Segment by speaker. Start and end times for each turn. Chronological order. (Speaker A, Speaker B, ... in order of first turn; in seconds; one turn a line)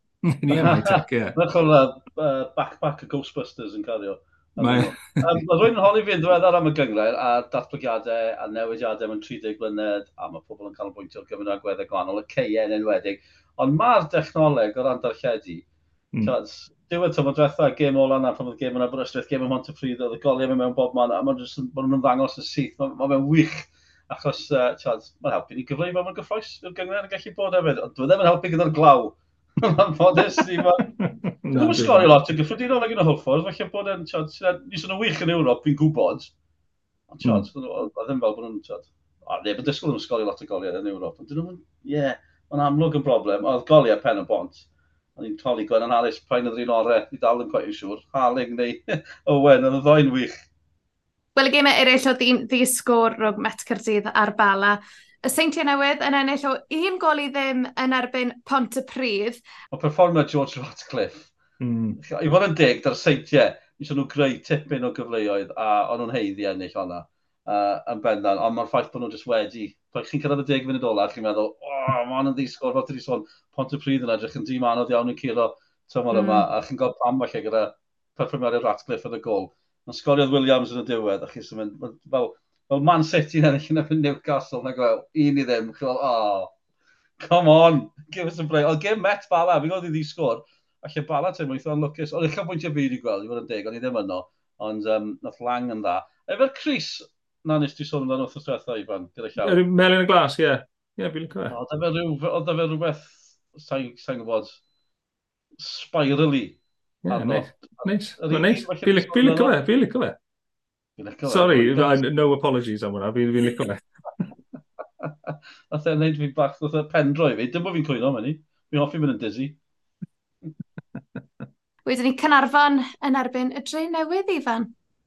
Speaker A: 0.2-1.4
Speaker B: 0.5-15.7
Speaker A: 4.6-5.2
Speaker B: 16.2-30.9
Speaker A: 31.0-32.1
Speaker B: 31.5-36.3
Speaker B: 37.1-44.6
Speaker A: 37.2-37.5
Speaker B: 45.2-50.3
Speaker C: 51.3-59.4
Speaker B: 59.7-61.3
Speaker A: 61.6-62.0
Speaker B: 62.0-86.5
Speaker C: 76.1-76.5
Speaker B: 87.2-99.6
Speaker A: 99.4-101.5
Speaker B: 101.5-104.6
Speaker B: 105.6-109.5
Speaker A: 107.0-110.2
Speaker B: 111.0-112.0
Speaker A: 111.2-114.2
Speaker B: 115.3-119.6
Speaker C: 121.8-124.7